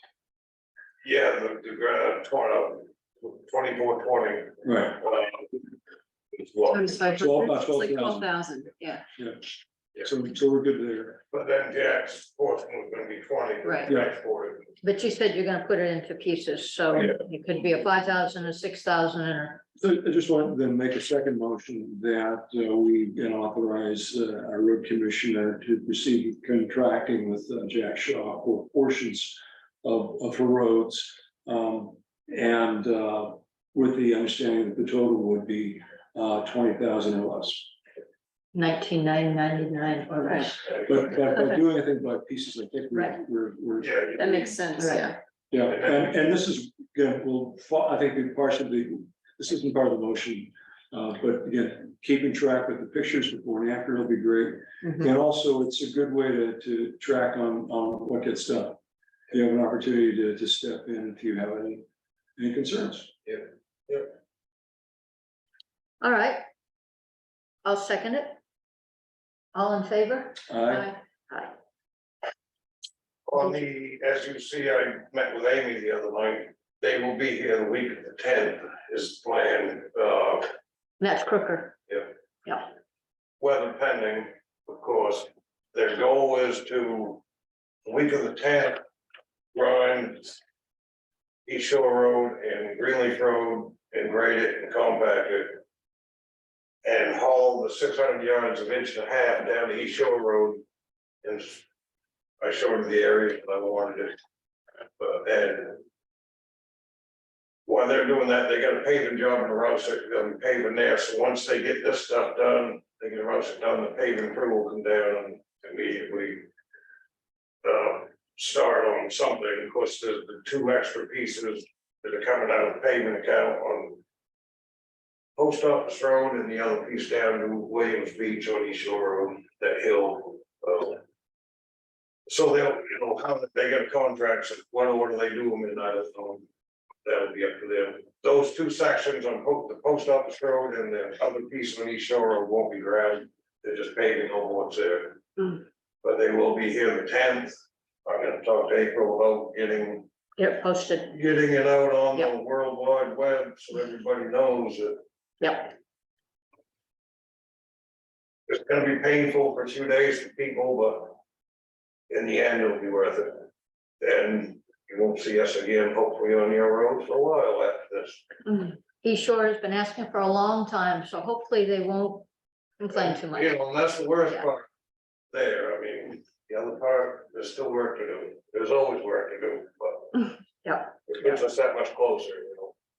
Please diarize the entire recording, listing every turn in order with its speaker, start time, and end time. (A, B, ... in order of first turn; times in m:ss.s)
0:01.0-0:05.5 A
0:04.6-0:05.0 B
0:06.3-0:07.0 A
0:06.7-0:09.0 C
0:07.1-0:08.3 B
0:09.2-0:09.4 B
0:10.0-0:11.2 B
0:11.3-0:14.8 A
0:13.6-0:13.9 C
0:13.9-0:14.1 B
0:14.8-0:19.6 D
0:19.8-0:37.7 B
0:38.5-0:40.8 D
0:40.2-0:40.5 C
0:40.8-0:44.0 B
0:42.9-0:43.2 D
0:43.8-0:44.8 A
0:44.2-0:45.2 C
0:44.8-0:45.1 D
0:45.5-0:58.8 B
0:59.3-1:01.8 B
1:02.4-1:03.1 B
1:03.3-1:04.1 A
1:06.0-1:06.4 D
1:07.6-1:08.4 D
1:09.5-1:11.5 D
1:10.5-1:10.9 B
1:13.3-1:20.5 A
1:21.0-1:21.8 D
1:23.4-1:27.2 A
1:27.8-1:28.8 A
1:29.5-1:30.4 A
1:31.5-1:35.6 A
1:36.8-1:40.6 A
1:41.2-1:41.6 A
1:42.4-1:44.2 A
1:45.0-1:45.8 A
1:47.7-1:56.5 A
1:57.6-2:04.0 A
2:05.4-2:11.0 A
2:12.3-2:16.4 A
2:17.0-2:30.1 A
2:30.4-2:31.1 D
2:31.1-2:35.0 A
2:35.4-2:35.7 D
2:38.5-2:41.2 A
2:42.1-2:43.5 A
2:44.0-2:48.3 A
2:48.5-2:48.8 C
2:49.0-2:52.3 D
2:52.8-2:53.6 D
2:52.9-2:54.7 A
2:55.3-3:00.3 A
3:00.6-3:01.4 D
3:01.1-3:02.7 A